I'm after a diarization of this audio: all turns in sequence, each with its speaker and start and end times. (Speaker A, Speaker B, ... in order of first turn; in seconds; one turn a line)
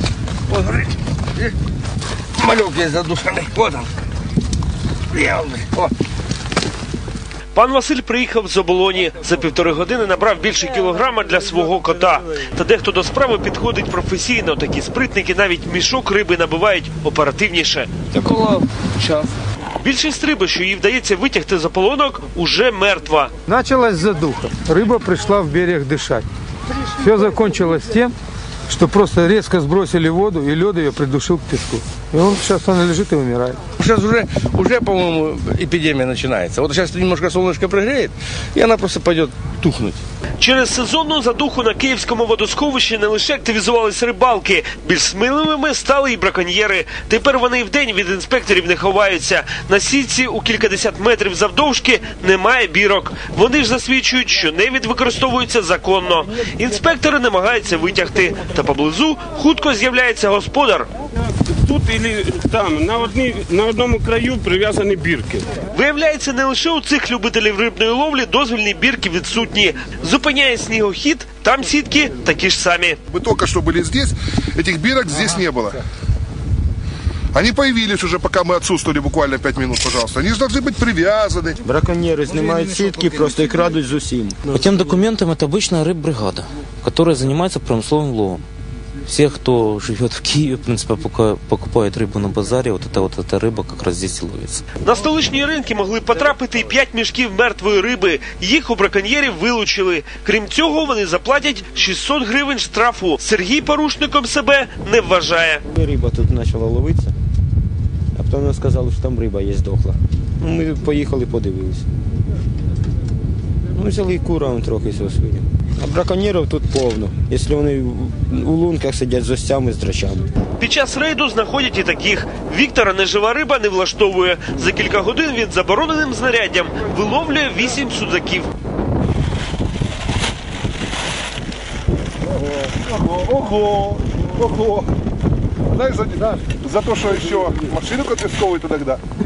Speaker A: 0.5-1.5
Speaker A: 2.4-3.9
Speaker A: 5.1-5.9
Speaker B: 7.5-23.3
Speaker C: 23.5-26.2
Speaker C: 27.0-28.1
Speaker C: 28.7-33.6
Speaker A: 33.8-40.0
Speaker B: 40.4-60.9
Speaker D: 61.6-65.5
Speaker B: 65.7-73.0
Speaker E: 73.1-75.8
Speaker E: 77.3-81.6
Speaker F: 81.6-84.4
Speaker G: 84.5-88.4
Speaker G: 89.0-94.6
Speaker B: 94.8-105.6
Speaker F: 105.7-107.1
Speaker F: 108.1-111.8
Speaker F: 113.7-120.2
Speaker B: 120.6-128.5
Speaker E: 132.4-134.9
Speaker E: 135.7-139.0